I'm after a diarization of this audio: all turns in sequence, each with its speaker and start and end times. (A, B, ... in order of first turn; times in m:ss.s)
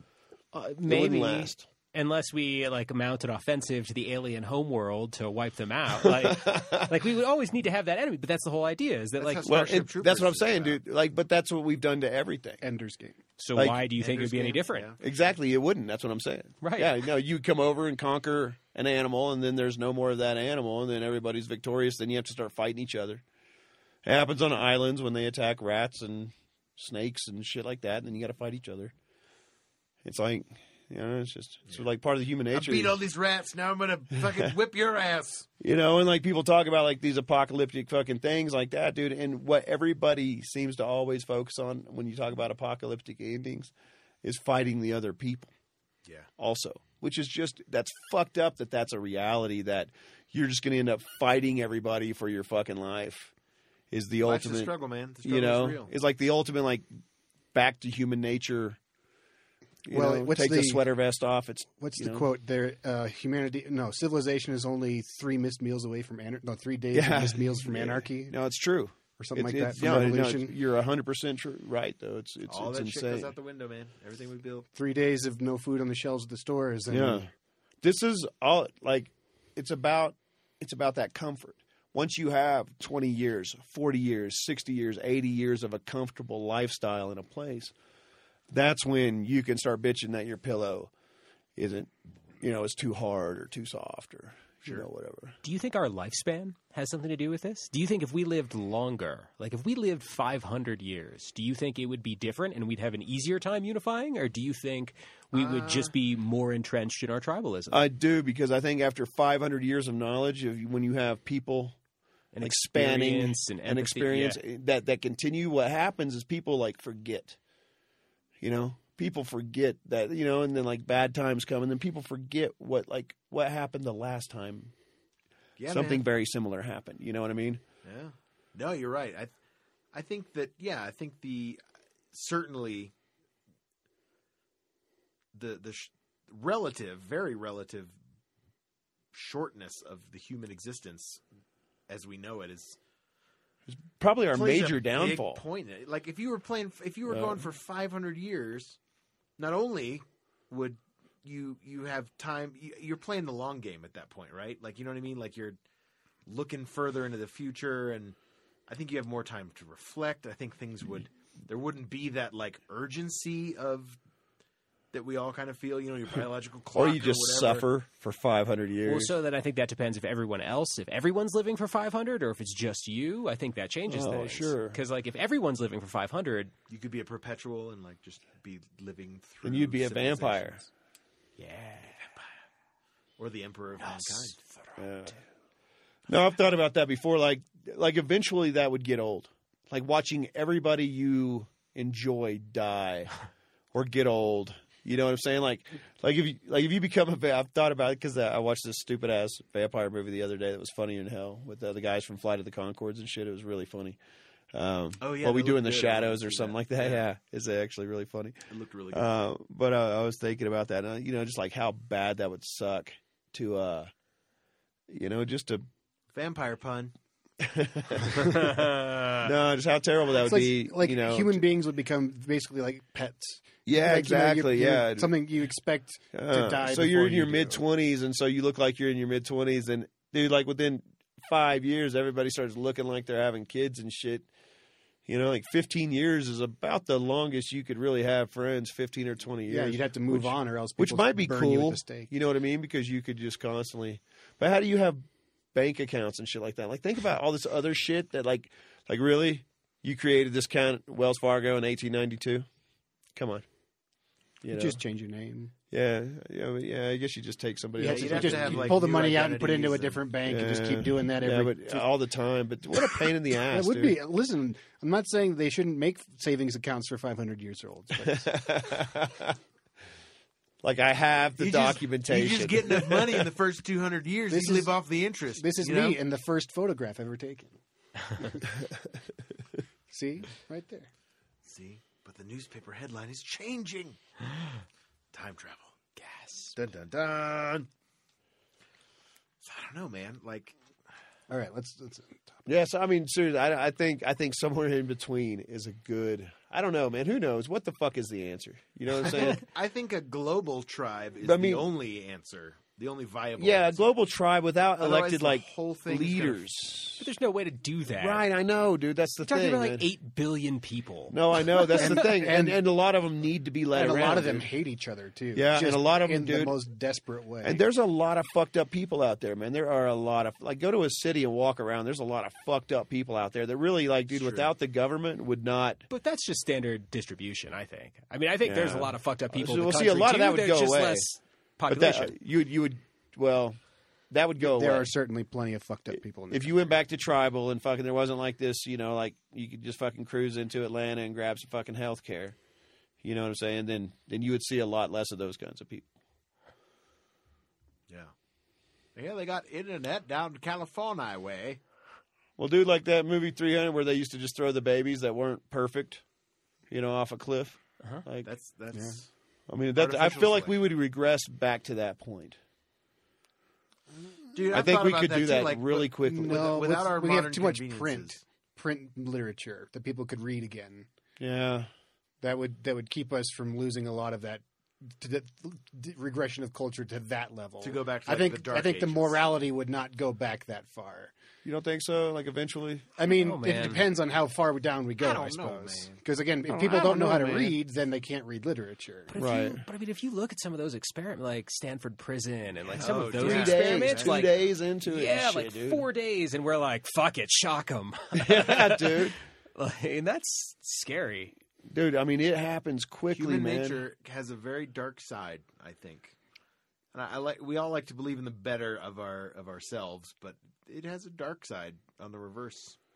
0:00.5-0:09.5 A
0:00.8-0:01.6 B
0:06.0-0:07.0 B
0:09.2-0:10.8 C
0:09.4-0:12.6 B
0:12.6-0:13.2 D
0:13.4-0:14.9 A
0:13.6-0:13.8 B
0:14.0-0:15.0 C
0:15.0-0:23.2 B
0:16.6-0:16.9 A
0:24.0-0:28.9 B
0:30.0-0:33.0 B
0:32.5-0:35.5 C
0:35.6-0:43.7 B
0:44.2-0:45.5 B
0:46.4-0:53.3 B
0:53.9-0:54.7 B
0:54.2-0:55.9 C
0:55.2-0:56.9 B
0:57.5-0:58.8 B
0:59.8-1:02.3 B
0:59.9-1:00.8 D
1:01.8-1:08.4 D
1:06.9-1:13.3 B
1:09.2-1:10.5 D
1:12.5-1:14.7 C
1:14.8-1:17.3 D
1:16.9-1:17.3 B
1:17.8-1:27.7 B
1:28.5-1:30.9 B
1:31.6-1:35.4 B
1:35.4-1:47.8 A
1:45.3-1:45.9 C
1:47.7-1:51.8 B
1:52.3-1:54.4 A
1:52.4-1:57.4 B
1:58.4-2:04.7 B
2:05.6-2:06.0 C
2:05.7-2:07.6 B
2:07.8-2:09.4 C
2:09.9-2:11.6 C
2:12.1-2:12.9 C
2:15.3-2:18.0 C
2:19.1-2:21.2 C
2:21.9-2:22.8 C
2:23.7-2:25.4 B
2:24.3-2:28.8 C
2:27.1-2:27.4 B
2:29.4-2:35.6 C
2:36.3-2:44.0 C
2:44.9-2:47.7 C
2:46.7-2:49.1 B
2:48.8-2:56.5 A
2:53.9-2:54.8 B
2:56.7-3:00.7 C
2:59.4-3:00.6 B
3:01.4-3:02.0 A
3:03.2-3:04.4 C
3:03.8-3:04.8 A
3:04.8-3:05.2 B
3:06.1-3:13.1 B
3:13.7-3:24.0 B
3:24.5-3:28.4 B
3:25.0-3:27.0 C
3:28.5-3:29.1 C
3:28.9-3:33.9 B
3:34.9-3:35.6 B
3:36.1-3:37.0 C
3:37.4-3:41.4 B
3:38.4-3:39.2 A
3:40.2-3:47.6 D
3:43.7-3:45.1 B
3:46.1-3:54.3 B
3:55.1-4:12.5 B
3:59.5-4:02.1 D
4:13.2-4:13.5 B
4:14.4-4:14.8 B
4:14.5-4:15.5 D
4:15.7-4:18.8 B
4:17.8-4:21.9 D
4:17.8-4:20.0 C
4:20.3-4:24.0 B
4:23.5-4:28.4 D
4:28.0-4:29.4 B
4:30.6-4:33.3 B
4:31.4-4:36.0 C
4:34.3-4:34.8 D
4:35.4-4:37.6 D
4:38.1-4:38.5 D
4:39.9-4:40.9 D
4:41.4-4:44.0 C
4:45.1-4:45.7 C
4:46.0-4:46.5 A
4:46.6-4:47.7 C
4:49.4-4:50.6 C
4:51.3-4:52.4 D
4:52.5-4:59.4 B
4:59.0-5:03.8 C
5:01.2-5:01.7 B
5:03.4-5:07.1 B
5:04.8-5:06.4 C
5:07.0-5:08.2 A
5:08.0-5:09.9 B
5:09.2-5:12.0 A
5:11.1-5:14.5 B
5:11.7-5:12.6 D
5:13.7-5:17.6 D
5:15.4-5:16.6 B
5:17.4-5:25.8 B
5:24.1-5:24.5 C
5:25.9-5:32.1 A
5:28.4-5:31.1 B
5:31.7-5:33.6 B
5:34.1-5:34.9 B
5:34.4-5:36.6 D
5:35.9-5:42.4 B
5:43.0-5:45.9 B
5:49.0-5:51.6 C
5:52.4-5:56.0 B
5:56.7-5:58.3 B
5:58.2-5:59.1 C
5:58.7-5:59.0 D
5:59.5-6:02.4 B
5:59.8-6:00.6 C
6:04.3-6:08.2 C
6:04.5-6:06.4 B
6:06.0-6:10.9 D
6:11.2-6:11.7 B
6:12.2-6:21.1 D
6:17.6-6:19.2 C
6:21.4-6:22.9 B
6:23.0-6:29.2 D
6:23.1-6:23.9 A
6:25.0-6:26.0 C
6:26.5-6:27.5 B
6:26.7-6:27.1 C
6:29.1-6:41.4 A
6:29.2-6:29.6 B
6:32.7-6:34.4 C
6:32.8-6:35.9 B
6:38.2-6:39.2 B
6:41.7-6:43.8 B
6:43.1-6:46.2 C
6:46.9-6:52.8 C